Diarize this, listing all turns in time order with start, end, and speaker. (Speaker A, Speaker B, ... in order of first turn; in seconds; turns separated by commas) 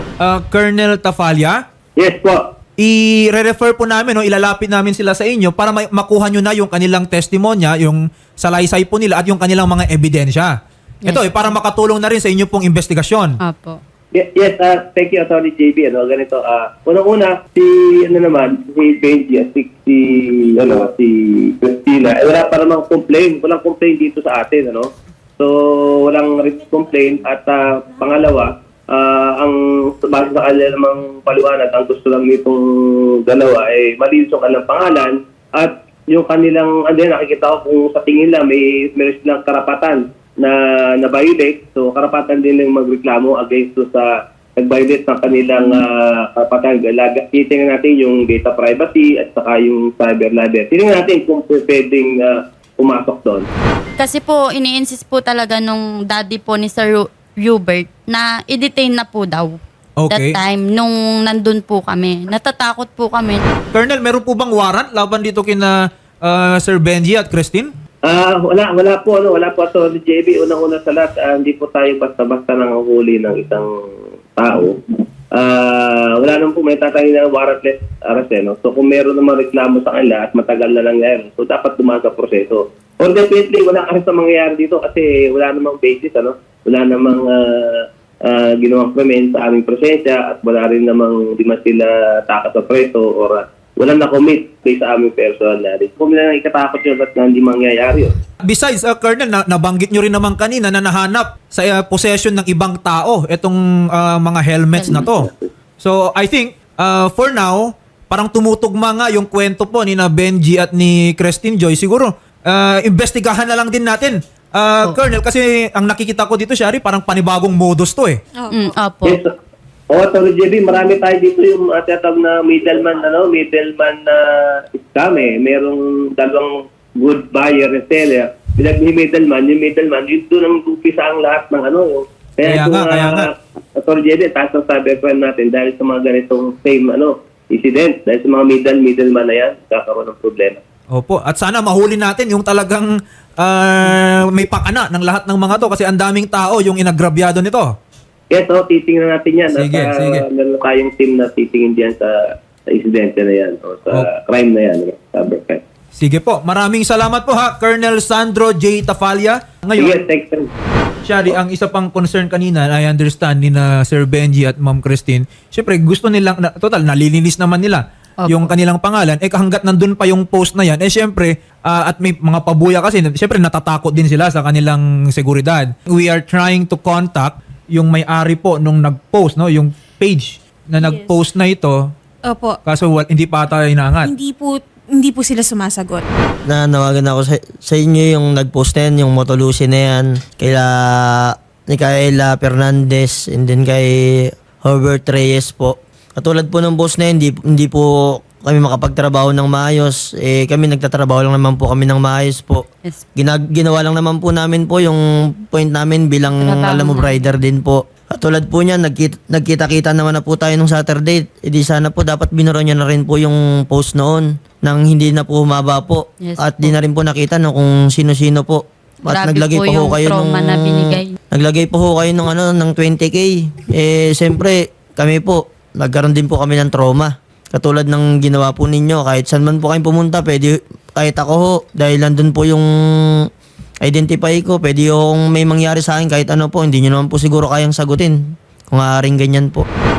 Speaker A: 0.2-1.6, Speaker B: 2.0-2.5, Speaker A: 2.8-13.4, Speaker C: 11.1-11.5, Speaker C: 13.4-13.8, Speaker B: 14.1-53.5, Speaker C: 54.0-59.6, Speaker A: 60.0-60.4, Speaker C: 60.1-63.4, Speaker A: 63.7-67.7, Speaker B: 68.0-73.7, Speaker B: 74.4-98.2, Speaker A: 98.4-105.3, Speaker C: 104.8-105.1, Speaker B: 104.9-105.5, Speaker A: 105.8-118.2, Speaker D: 118.4-118.7, Speaker C: 118.5-119.2, Speaker B: 119.0-119.3, Speaker B: 119.9-140.6, Speaker A: 132.4-133.3, Speaker A: 140.9-147.8, Speaker B: 148.3-152.2, Speaker A: 149.5-150.2, Speaker B: 152.7-155.6, Speaker A: 155.9-160.0, Speaker B: 159.8-160.5, Speaker A: 161.1-181.8, Speaker C: 168.2-168.5, Speaker D: 180.8-181.1, Speaker D: 182.3-182.6, Speaker A: 182.7-184.1, Speaker D: 184.1-186.1, Speaker E: 186.5-202.7, Speaker E: 203.2-232.7, Speaker C: 206.4-207.3, Speaker C: 216.2-216.7, Speaker C: 219.1-221.2, Speaker E: 233.8-238.2, Speaker E: 238.7-239.7